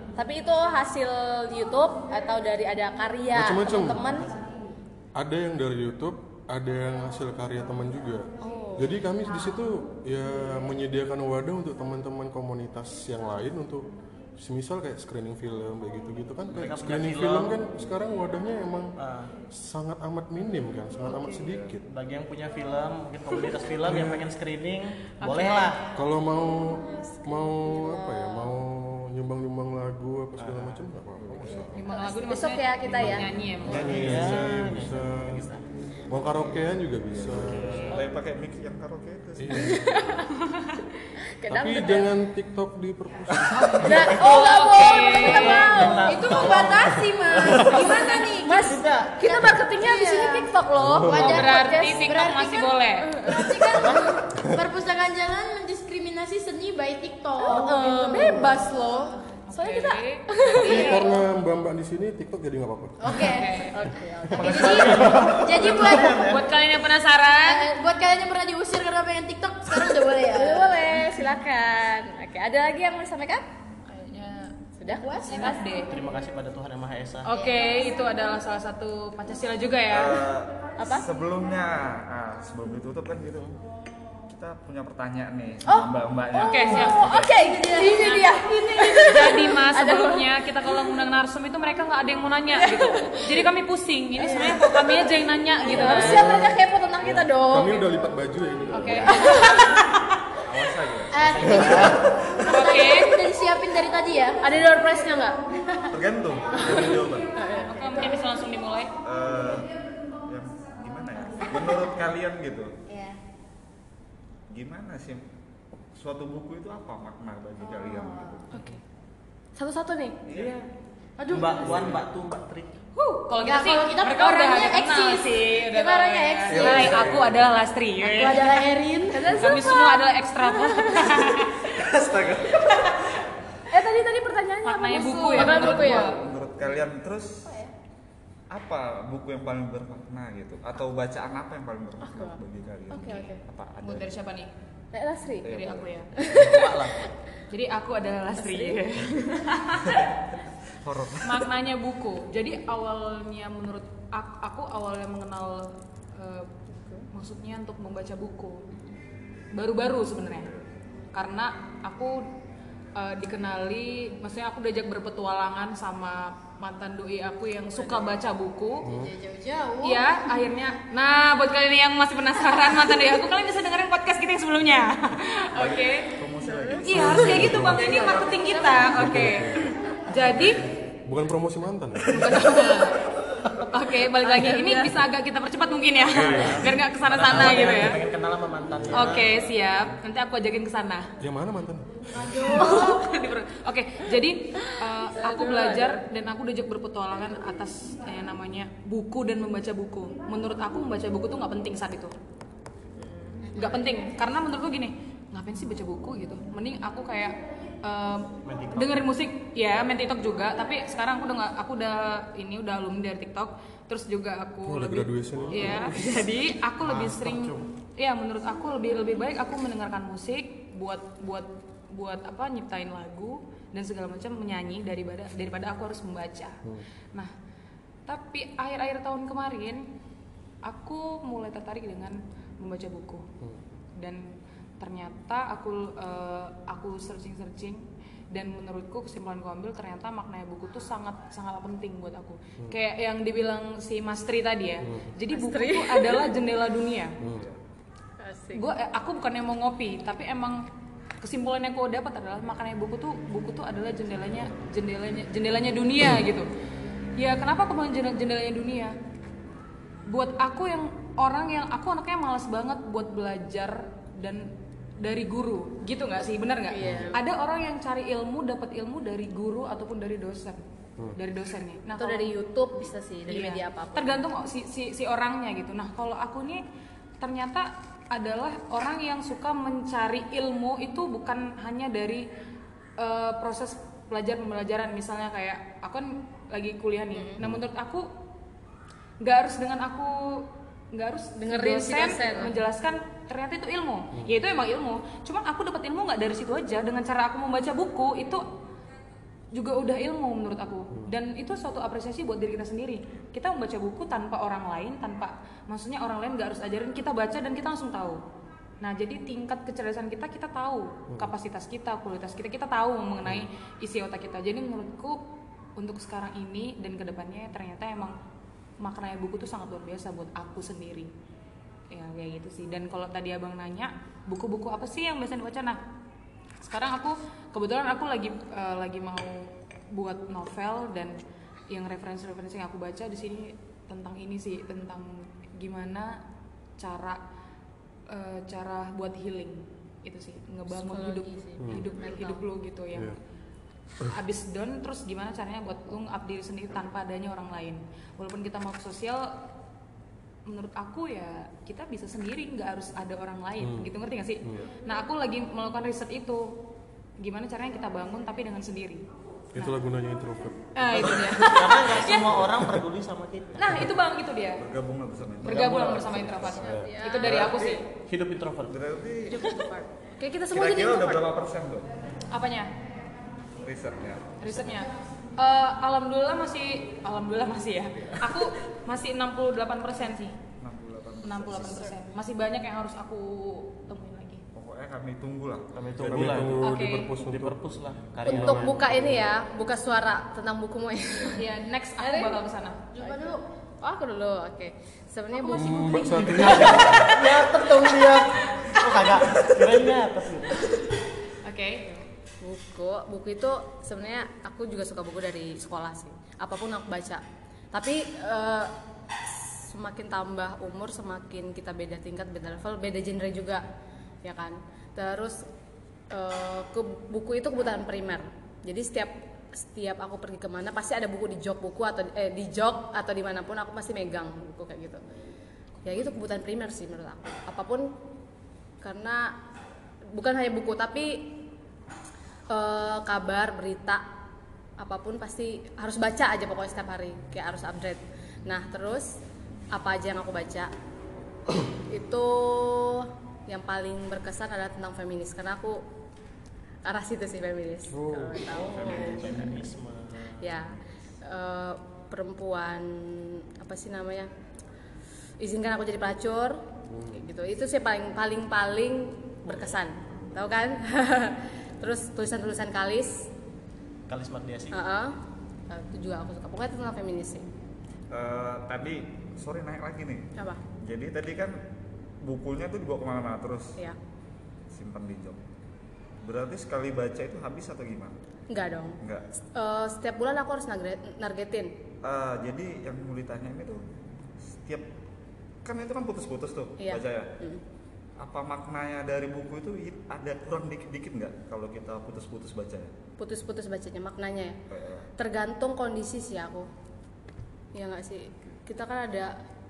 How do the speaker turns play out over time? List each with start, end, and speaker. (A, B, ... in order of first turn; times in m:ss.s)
0:00.2-0:04.3 A
0:03.3-0:04.0 B
0:05.2-0:18.9 B
0:08.4-0:09.0 A
0:16.5-0:17.6 C
0:19.0-0:19.3 C
0:19.5-0:21.8 B
0:21.4-0:21.7 D
0:21.8-0:25.9 C
0:23.8-0:24.3 B
0:25.2-0:25.8 E
0:25.9-0:31.9 B
0:26.9-0:28.5 A
0:30.4-0:30.9 C
0:31.2-0:31.5 D
0:31.5-0:33.2 A
0:31.7-0:34.4 E
0:32.9-0:35.5 B
0:33.6-0:35.6 C
0:36.1-0:38.0 B
0:37.2-0:37.9 C
0:37.6-0:39.7 D
0:39.4-0:39.9 B
0:39.5-0:40.4 A
0:41.0-0:42.1 A
0:41.5-0:44.1 B
0:43.5-0:44.2 C
0:43.7-0:46.8 E
0:43.8-0:46.3 A
0:44.3-0:48.7 F
0:45.6-0:49.3 C
0:47.6-0:48.3 E
0:48.4-0:52.0 A
0:49.7-0:50.5 F
0:50.8-0:51.5 B
0:51.1-0:58.6 F
0:51.1-0:53.1 E
0:53.0-0:53.6 A
0:53.7-0:54.2 C
0:57.4-1:01.1 A
0:59.5-1:01.1 E
1:00.6-1:03.2 B
1:00.7-1:01.0 F
1:03.0-1:03.7 F
1:03.2-1:03.9 E
1:03.7-1:05.0 A
1:04.3-1:06.4 C
1:04.4-1:06.2 F
1:04.5-1:04.8 E
1:05.7-1:07.7 E
1:07.4-1:11.0 F
1:10.3-1:13.4 A
1:13.9-1:14.6 E
1:14.8-1:15.6 A
1:14.8-1:15.6 F
1:15.3-1:16.0 E
1:15.9-1:17.3 C
1:17.3-1:20.2 E
1:17.3-1:17.7 F
1:19.9-1:23.6 D
1:20.8-1:21.0 A
1:24.3-1:27.3 D
1:25.7-1:30.2 A
1:26.4-1:27.0 E
1:26.7-1:29.3 F
1:27.9-1:28.3 E
1:29.1-1:36.3 E
1:32.6-1:33.3 A
1:34.2-1:34.6 A
1:35.6-1:37.9 A
1:35.8-1:39.4 B
1:38.7-1:40.1 E
1:39.2-1:39.8 A
1:40.4-1:42.4 D
1:41.1-1:44.4 F
1:41.2-1:42.1 C
1:42.5-1:43.2 E
1:44.4-1:45.4 A
1:45.5-1:45.9 F
1:45.9-1:47.4 D
1:47.4-1:47.8 A
1:47.7-1:48.9 E
1:49.0-1:49.7 D
1:50.2-1:52.7 D
1:52.9-1:53.2 F
1:54.5-1:55.2 D
1:56.0-1:58.6 D
1:57.6-1:58.3 F
1:58.5-1:58.8 A
1:59.6-2:00.2 A
2:00.2-2:00.6 D
2:00.3-2:00.7 C
2:01.2-2:01.6 F
2:01.3-2:02.7 C
2:01.3-2:02.0 D
2:02.9-2:08.6 E
2:03.4-2:07.2 F
2:06.5-2:07.5 D
2:08.0-2:09.4 F
2:09.1-2:11.2 A
2:09.3-2:11.6 E
2:11.6-2:13.2 D
2:11.8-2:12.5 C
2:13.7-2:16.1 A
2:14.6-2:16.2 E
2:15.4-2:17.5 D
2:17.4-2:17.7 F
2:18.5-2:24.1 D
2:22.0-2:22.4 A
2:22.9-2:23.4 A
2:23.8-2:24.5 E
2:24.9-2:25.5 A
2:25.4-2:26.6 D
2:25.5-2:26.2 E
2:26.2-2:26.7 A
2:26.2-2:27.1 C
2:27.5-2:30.0 E
2:28.4-2:29.3 A
2:30.8-2:31.5 D
2:31.2-2:36.5 E
2:37.1-2:38.6 E
2:39.5-2:40.5 E
2:41.1-2:42.3 E
2:43.0-2:48.9 E
2:48.8-2:49.1 B
2:48.8-2:50.0 F
2:49.8-2:56.2 E
2:55.5-2:58.8 D
2:56.5-2:56.8 A
2:56.8-3:00.6 E
2:56.9-2:58.1 B
2:58.1-2:58.7 A
2:58.9-2:59.7 B
3:00.4-3:02.4 B
3:02.1-3:03.0 E
3:03.6-3:08.1 E
3:04.2-3:04.9 A
3:06.1-3:06.7 B
3:06.2-3:09.4 C
3:08.7-3:09.3 B
3:08.9-3:11.1 E
3:11.2-3:12.1 B
3:12.2-3:13.0 A
3:12.5-3:22.1 E
3:14.6-3:16.0 A
3:23.0-3:23.7 A
3:23.5-3:23.9 F
3:23.5-3:47.3 E
3:28.4-3:29.1 C
3:34.6-3:36.3 B
3:35.4-3:35.9 C
3:36.9-3:37.5 C
3:48.0-3:49.9 E
3:50.6-3:53.3 E
3:54.0-4:07.2 E
4:04.8-4:05.1 B
4:05.3-4:06.3 A
4:07.2-4:07.4 B
4:07.3-4:07.6 D
4:08.2-4:08.7 A
4:08.5-4:10.6 E
4:11.2-4:16.5 E
4:17.2-4:19.0 E
4:20.1-4:30.6 E
4:26.8-4:27.2 B
4:31.1-4:32.3 E
4:32.0-4:34.2 A
4:33.2-4:36.6 E
4:37.2-4:42.2 E
4:43.0-4:48.1 E
4:47.1-4:47.4 A
4:49.2-4:58.5 E
4:51.4-4:52.6 A
4:59.5-5:08.2 E
5:08.8-5:15.2 E
5:15.8-5:18.2 E
5:18.8-5:21.1 E
5:21.9-5:25.8 E
5:26.6-5:36.2 E
5:36.8-5:37.2 E
5:38.1-5:43.2 E
5:40.7-5:42.4 A
5:41.6-5:41.9 B
5:44.0-5:49.3 E
5:50.4-5:56.6 E
5:53.6-5:54.7 B
5:57.2-5:59.0 E
5:59.5-6:01.4 B
6:00.7-6:02.4 E
6:00.9-6:03.8 C
6:02.4-6:02.8 B
6:03.6-6:04.6 E
6:04.6-6:06.2 D
6:05.4-6:07.8 E
6:05.5-6:08.8 C
6:06.6-6:07.4 A
6:06.6-6:06.9 B
6:08.7-6:09.5 D
6:09.3-6:11.3 A
6:10.5-6:11.9 D
6:12.3-6:12.7 E
6:13.6-6:14.5 D
6:14.4-6:20.4 E
6:20.6-6:21.9 D
6:21.2-6:24.4 E
6:24.5-6:26.5 D
6:25.7-6:28.8 C
6:26.0-6:27.6 B
6:26.6-6:27.2 E
6:28.2-6:29.3 B
6:28.2-6:31.4 A
6:31.3-6:32.8 E
6:32.0-6:32.4 A
6:32.9-6:33.4 F
6:33.0-6:36.9 A
6:35.5-6:37.2 B
6:36.2-6:40.8 C
6:41.4-6:41.9 E
6:42.4-6:48.7 A
6:49.3-6:53.6 A
6:54.2-6:55.4 A
6:56.1-7:05.0 A
7:05.8-7:07.9 A
7:08.8-7:09.4 A
7:10.1-7:11.4 A
7:12.5-7:14.0 A
7:14.8-7:19.2 A
7:19.7-7:20.7 A
7:21.8-7:25.8 A
7:26.8-7:29.6 A
7:27.9-7:28.5 B
7:28.4-7:30.5 C
7:28.8-7:29.4 D
7:30.4-7:34.3 A
7:35.4-7:43.3 A
7:36.9-7:37.2 B
7:44.1-7:44.8 C
7:44.7-7:45.2 A
7:45.7-7:47.5 A
7:48.1-7:51.6 D
7:52.2-7:53.8 D
7:54.7-7:55.4 D
7:56.2-7:58.1 D
7:58.5-7:59.0 A
7:59.0-7:59.3 D
7:59.5-8:01.7 A
8:02.0-8:03.9 D
8:04.4-8:04.9 D
8:05.6-8:07.4 D
8:06.8-8:07.6 A
8:08.2-8:12.9 D
8:13.2-8:14.6 A
8:14.7-8:15.1 D
8:15.2-8:16.7 A
8:17.7-8:19.4 A